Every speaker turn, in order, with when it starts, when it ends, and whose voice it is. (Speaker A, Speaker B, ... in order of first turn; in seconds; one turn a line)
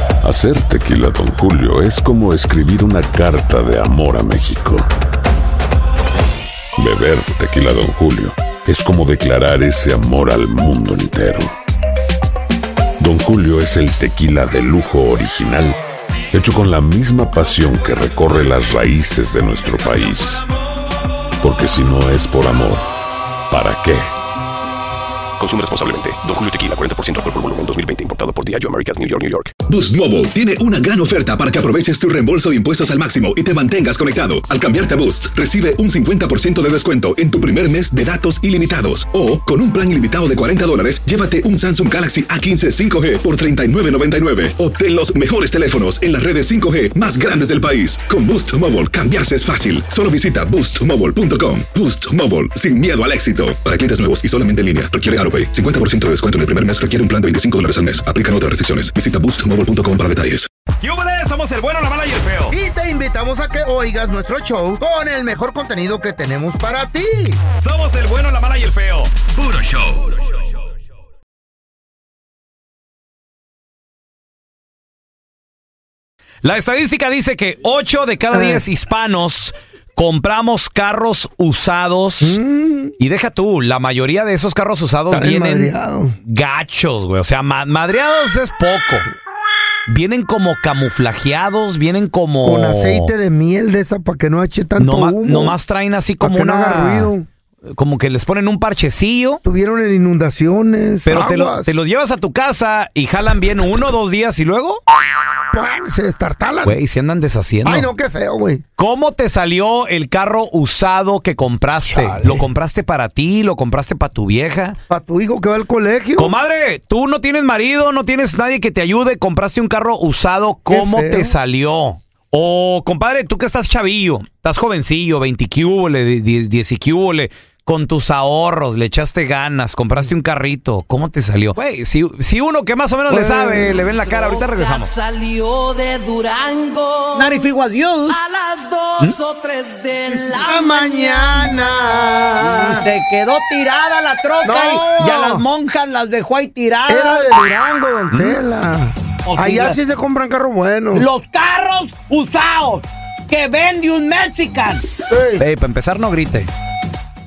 Speaker A: 0.2-4.9
Speaker A: 6.8-11.5
Speaker A: 13.0-15.8
Speaker A: 16.3-20.5
Speaker A: 21.4-22.8
Speaker A: 23.5-24.1
Speaker B: 25.4-29.5
Speaker C: 29.6-60.5
Speaker D: 60.8-62.5
Speaker E: 62.5-67.4
Speaker D: 67.6-70.4
Speaker D: 76.4-82.4
Speaker E: 78.3-78.6
Speaker E: 82.2-82.9
Speaker D: 83.0-85.7
Speaker E: 85.1-86.1
Speaker D: 86.2-89.1
Speaker D: 89.9-93.1
Speaker E: 92.4-95.5
Speaker D: 94.8-97.1
Speaker E: 96.2-97.3
Speaker D: 97.6-99.4
Speaker E: 99.4-101.8
Speaker D: 101.0-104.8
Speaker E: 105.5-106.8
Speaker D: 106.6-107.9
Speaker E: 107.6-108.6
Speaker D: 108.8-114.8
Speaker E: 111.9-112.5
Speaker E: 114.9-116.3
Speaker D: 116.2-134.9
Speaker E: 120.7-121.3
Speaker E: 133.1-133.8
Speaker F: 134.0-137.4
Speaker G: 137.1-138.2
Speaker F: 138.1-141.5
Speaker E: 140.4-142.9
Speaker G: 142.5-147.4
Speaker E: 144.4-145.4
Speaker E: 146.9-151.1
Speaker D: 148.1-148.4
Speaker G: 149.2-149.8
Speaker G: 150.9-154.8
Speaker E: 155.1-155.4
Speaker D: 155.4-156.5